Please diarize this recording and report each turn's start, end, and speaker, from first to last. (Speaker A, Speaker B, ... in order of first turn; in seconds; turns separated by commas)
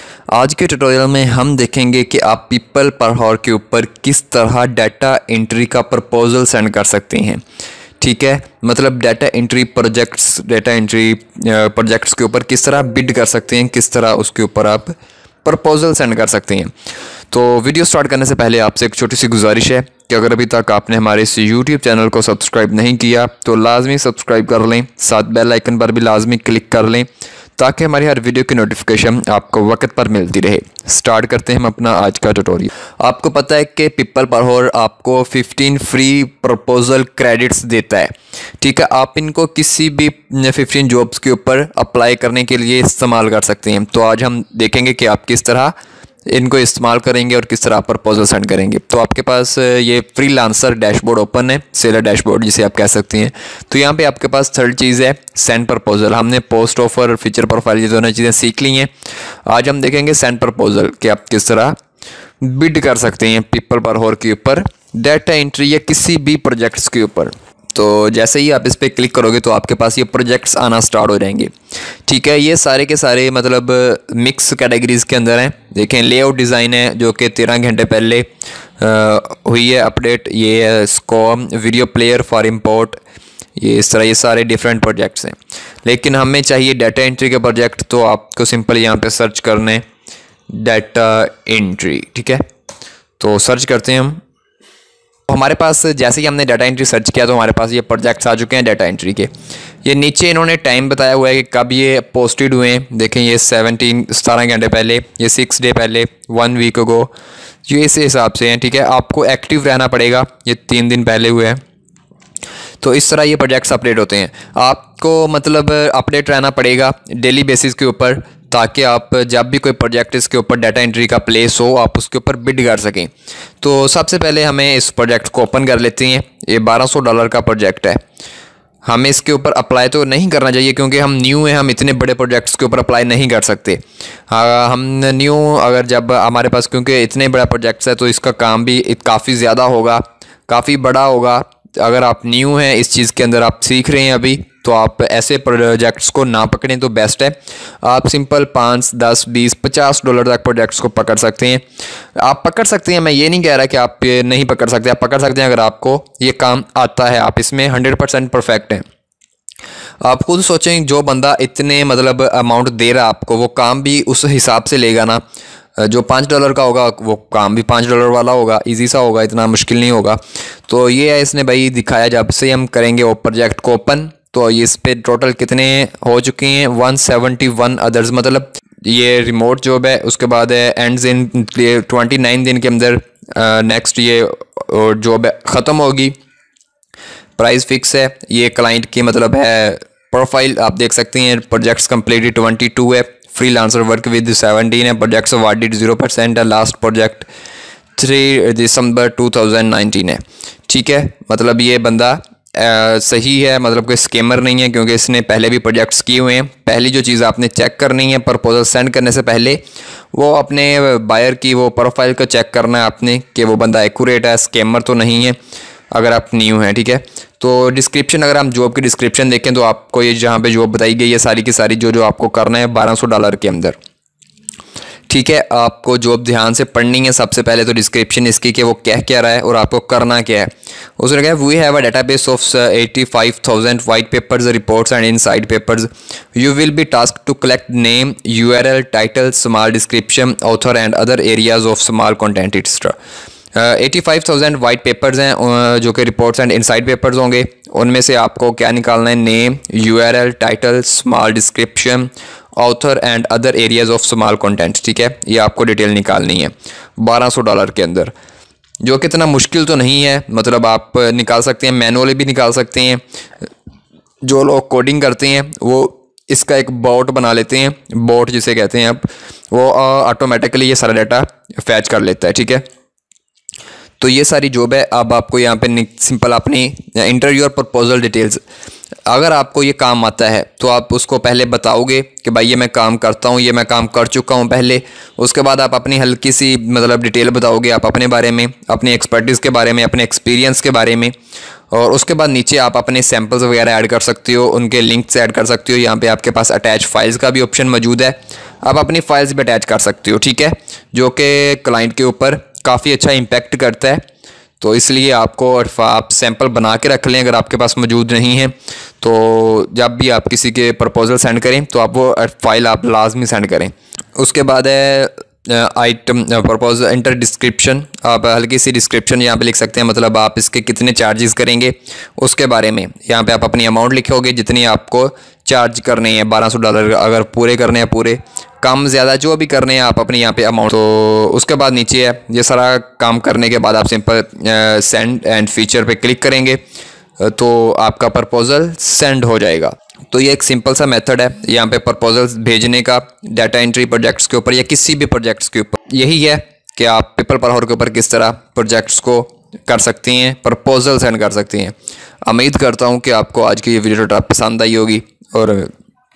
Speaker A: 0.3-7.4, Speaker A: 8.0-16.7, Speaker A: 17.3-27.1, Speaker A: 27.6-45.7, Speaker A: 46.3-58.9, Speaker A: 59.5-61.8, Speaker A: 62.4-71.5, Speaker A: 72.1-78.3, Speaker A: 78.8-83.0, Speaker A: 83.6-89.8, Speaker A: 90.5-92.4, Speaker A: 93.2-94.2, Speaker A: 95.3-99.3, Speaker A: 99.8-107.1, Speaker A: 107.7-111.6, Speaker A: 112.8-128.0, Speaker A: 128.8-151.6, Speaker A: 152.2-158.8, Speaker A: 160.0-165.2, Speaker A: 165.8-186.2, Speaker A: 187.4-197.3, Speaker A: 198.0-209.6, Speaker A: 210.1-215.4, Speaker A: 215.9-223.8, Speaker A: 225.1-242.9, Speaker A: 243.6-258.1, Speaker A: 258.8-263.0, Speaker A: 264.2-272.6, Speaker A: 274.0-278.4, Speaker A: 279.1-291.1, Speaker A: 291.7-304.0, Speaker A: 304.6-336.6, Speaker A: 337.2-355.7